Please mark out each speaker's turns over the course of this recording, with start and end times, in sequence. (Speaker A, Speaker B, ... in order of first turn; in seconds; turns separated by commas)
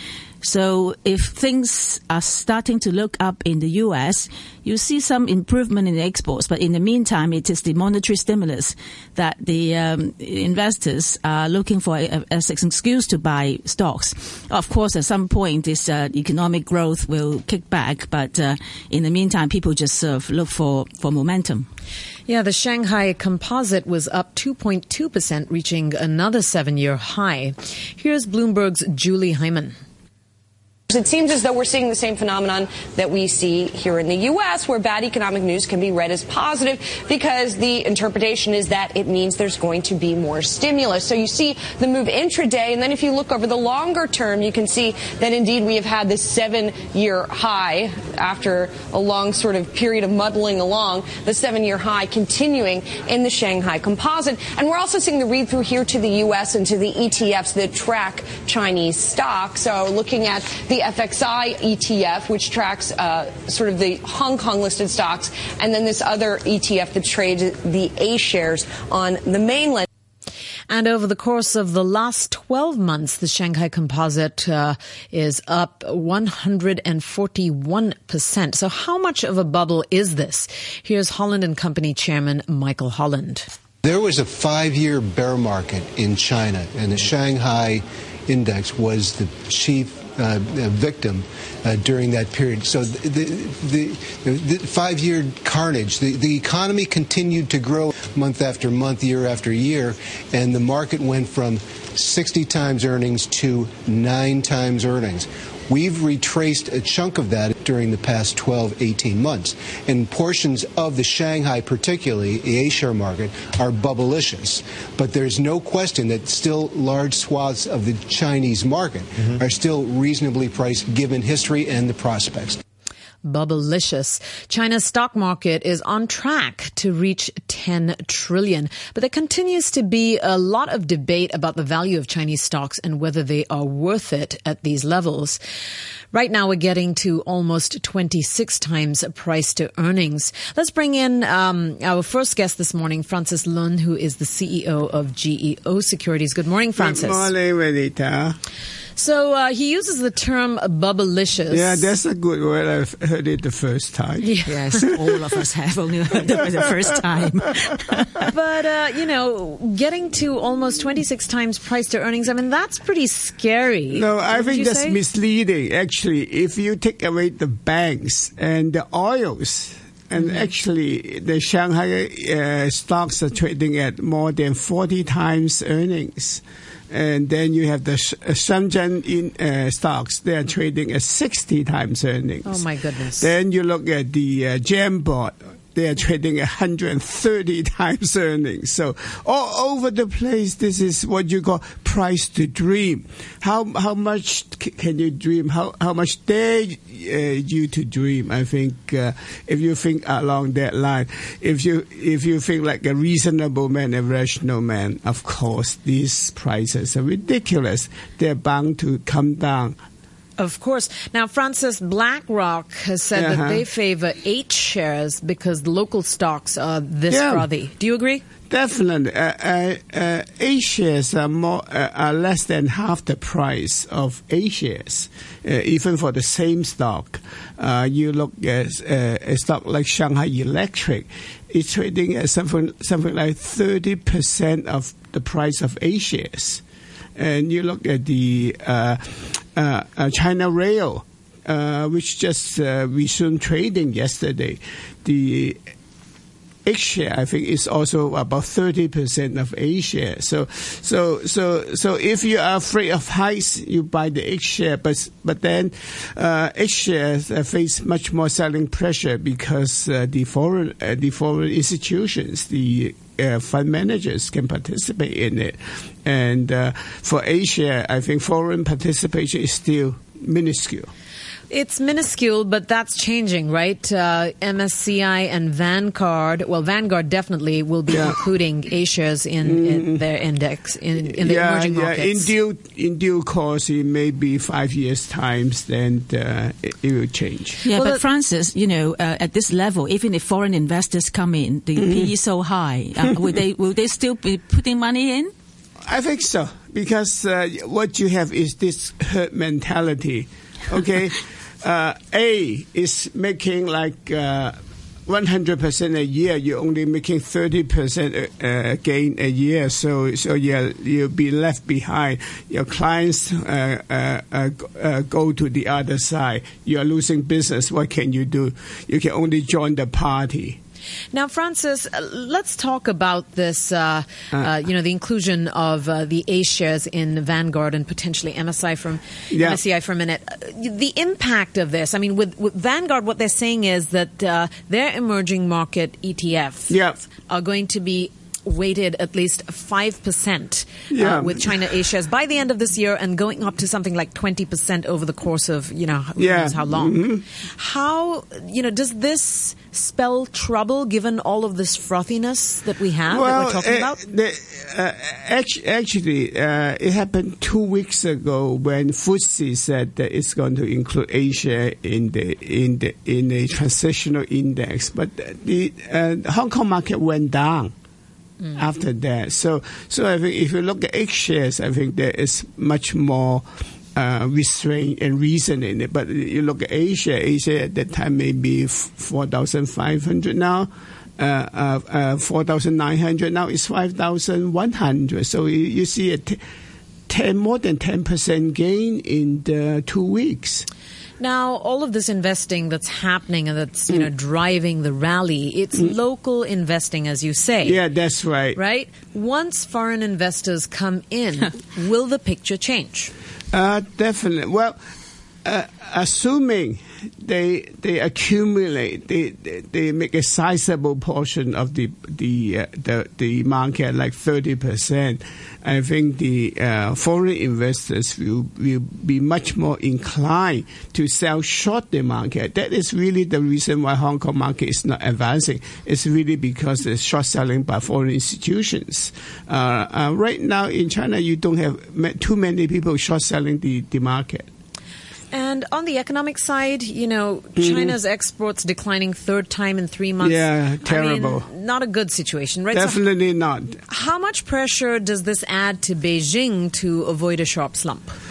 Speaker A: 0.4-21.7, Speaker B: 22.3-29.8, Speaker C: 30.9-69.8, Speaker B: 70.7-83.5, Speaker D: 83.8-122.6, Speaker B: 123.2-135.4, Speaker B: 136.1-147.3, Speaker E: 146.8-148.4, Speaker B: 149.0-151.9, Speaker E: 151.5-155.3, Speaker B: 154.2-154.8, Speaker A: 154.4-158.3, Speaker E: 156.2-157.1, Speaker B: 158.3-165.0, Speaker E: 163.9-182.6, Speaker B: 182.4-183.3, Speaker E: 183.2-209.8, Speaker B: 210.4-218.2, Speaker E: 213.1-213.6, Speaker E: 217.1-217.5, Speaker E: 218.5-236.6, Speaker E: 237.2-245.6, Speaker E: 246.6-270.9, Speaker B: 271.5-282.3, Speaker E: 277.9-278.2, Speaker E: 279.4-280.0, Speaker E: 281.0-287.6, Speaker A: 287.6-295.3, Speaker B: 287.7-288.0, Speaker E: 291.8-292.1, Speaker E: 295.8-320.6, Speaker B: 321.1-347.0, Speaker E: 329.3-329.6, Speaker E: 336.7-337.0, Speaker E: 340.9-341.7, Speaker E: 346.2-347.2, Speaker B: 347.6-354.0, Speaker E: 353.1-367.7, Speaker E: 368.5-386.4, Speaker E: 387.1-390.7, Speaker B: 391.2-397.8, Speaker E: 397.6-398.6, Speaker B: 398.5-403.1, Speaker E: 403.5-404.8, Speaker E: 405.4-434.5, Speaker B: 435.3-443.0, Speaker E: 437.6-437.9, Speaker E: 440.2-441.5, Speaker E: 442.7-443.8, Speaker B: 443.9-448.2